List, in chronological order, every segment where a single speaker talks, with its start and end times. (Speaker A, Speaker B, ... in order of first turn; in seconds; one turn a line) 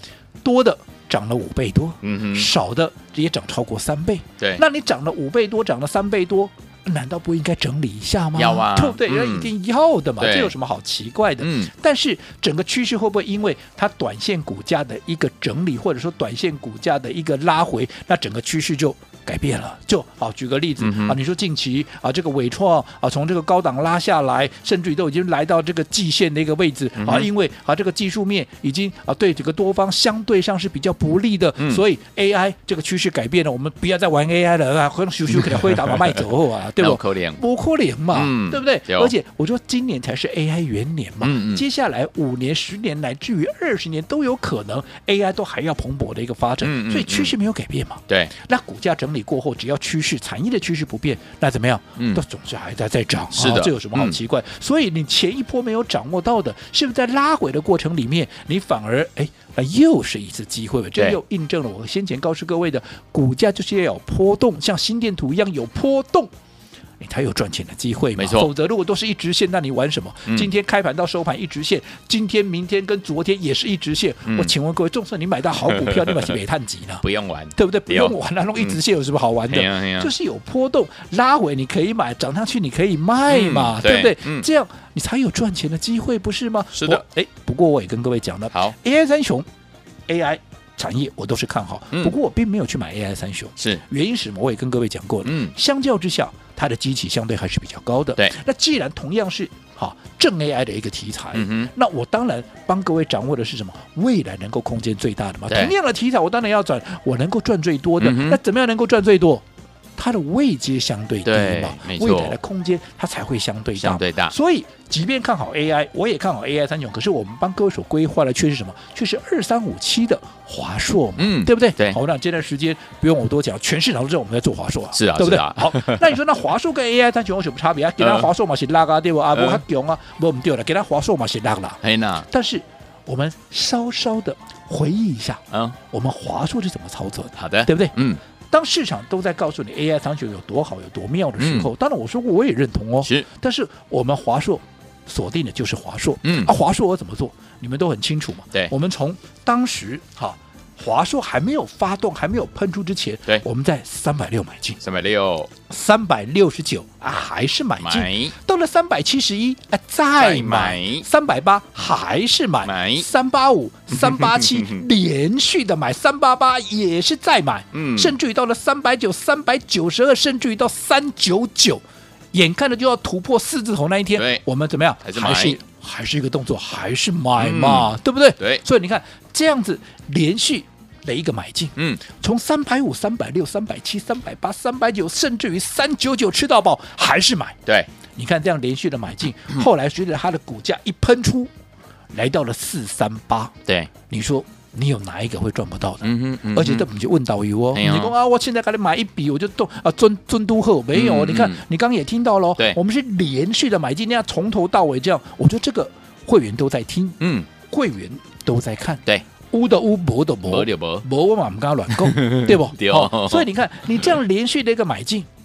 Speaker A: 0.4-66.3
Speaker B: 2.0-2.5
Speaker B: 8.3-9.5
Speaker B: 10.2-10.5
Speaker B: 11.4-11.7
Speaker B: 20.8-21.2
Speaker B: 27.0-27.3
Speaker B: 31.6-31.8
Speaker B: 36.8-37.4
Speaker B: 38.1-39.1
Speaker B: 41.2-41.6
Speaker B: 46.6-47.3
Speaker B: 52.0-52.2
Speaker B: 53.4-54.2
Speaker A: 67.0-77.0
Speaker B: 68.2-68.5
Speaker B: 74.3-74.5
Speaker B: 75.7-76.3
Speaker B: 77.0-78.8
Speaker A: 77.6-89.5
Speaker B: 79.5-80.1
Speaker B: 83.3-84.5
Speaker B: 86.8-87.0
Speaker A: 90.1-109.4
Speaker B: 93.6-93.8
Speaker B: 95.2-95.5
Speaker B: 101.3-101.7
Speaker B: 105.5-105.8
Speaker B: 108.0-108.4
Speaker A: 110.0-138.0
Speaker B: 111.2-112.4
Speaker B: 113.8-114.3
Speaker B: 121.2-122.0
Speaker B: 124.9-126.2
Speaker B: 128.0-128.3
Speaker B: 129.3-129.6
Speaker B: 131.8-132.3
Speaker B: 135.5-135.8
Speaker B: 137.4-138.2
Speaker A: 138.5-154.8
Speaker B: 141.4-141.7
Speaker B: 143.0-143.3
Speaker B: 146.2-146.5
Speaker B: 154.8-155.5
Speaker A: 155.7-187.6
Speaker B: 157.8-158.3
Speaker B: 160.2-161.1
Speaker B: 162.6-163.1
Speaker B: 163.9-164.8
Speaker B: 167.7-168.2
Speaker B: 174.1-174.4
Speaker B: 175.0-175.6
Speaker B: 177.4-178.6
Speaker B: 181.8-182.0
Speaker A: 188.2-191.5
Speaker A: 192.1-193.5
Speaker B: 193.7-193.9
Speaker A: 194.1-215.3
Speaker B: 196.0-196.9
Speaker B: 197.7-198.1
Speaker B: 200.9-201.6
Speaker B: 207.2-207.5
Speaker B: 210.4-211.1
Speaker B: 211.9-214.1